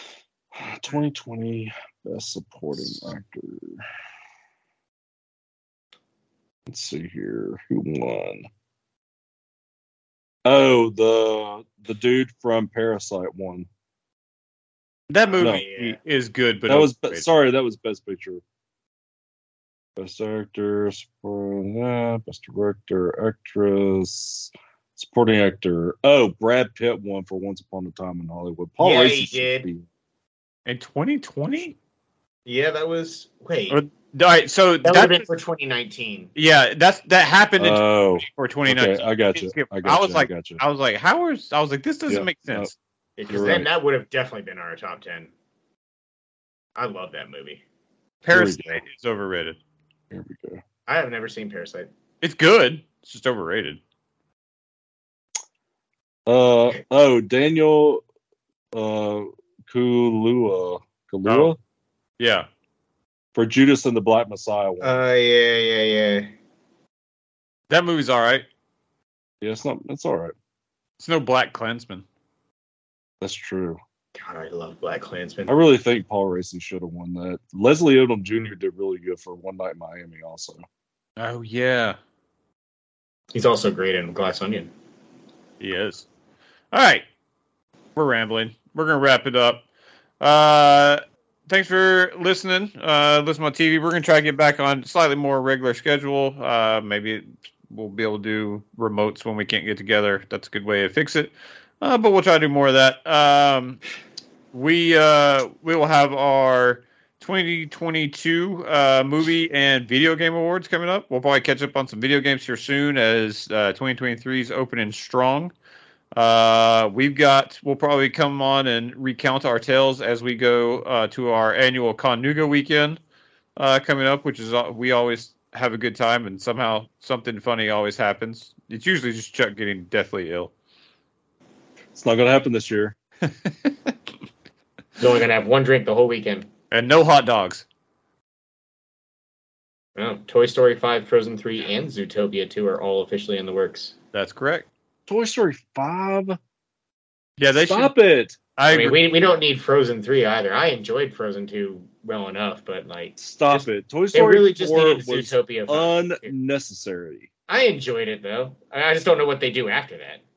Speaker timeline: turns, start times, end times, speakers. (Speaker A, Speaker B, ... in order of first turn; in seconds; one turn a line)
Speaker A: 0.5-3.8
Speaker A: 6.7-8.5
Speaker A: 10.4-13.7
Speaker B: 15.1-17.3
Speaker C: 15.3-16.0
Speaker A: 16.7-18.4
Speaker A: 20.0-29.9
Speaker C: 28.8-29.7
Speaker B: 30.7-31.8
Speaker C: 32.5-33.8
Speaker B: 33.7-35.3
Speaker C: 34.8-36.3
Speaker B: 36.4-42.7
Speaker A: 37.6-40.6
Speaker A: 42.1-42.7
Speaker C: 43.2-45.3
Speaker A: 43.3-43.7
Speaker C: 46.8-47.6
Speaker B: 48.2-49.6
Speaker A: 48.3-48.8
Speaker A: 50.1-50.6
Speaker C: 50.9-51.9
Speaker B: 52.2-53.8
Speaker A: 56.3-58.0
Speaker A: 58.7-61.6
Speaker B: 61.2-61.5
Speaker B: 62.2-62.5
Speaker A: 63.4-65.0
Speaker C: 64.8-66.3
Speaker B: 67.7-68.5
Speaker A: 69.4-70.3
Speaker B: 71.0-72.0
Speaker A: 73.2-73.8
Speaker C: 74.2-75.5
Speaker A: 75.5-80.6
Speaker B: 81.2-82.0
Speaker C: 83.3-84.7
Speaker B: 85.6-86.1
Speaker B: 86.7-87.0
Speaker B: 88.0-89.6
Speaker B: 90.2-103.8
Speaker B: 104.5-115.5
Speaker B: 116.2-123.0
Speaker B: 123.6-130.5
Speaker A: 131.9-133.0
Speaker C: 135.0-136.5
Speaker B: 136.7-137.7
Speaker C: 140.0-143.9
Speaker B: 144.1-144.7
Speaker A: 145.1-146.4
Speaker B: 147.4-147.9
Speaker A: 147.6-148.4
Speaker B: 148.6-149.0
Speaker C: 148.7-156.3
Speaker A: 153.2-157.3
Speaker C: 157.5-160.2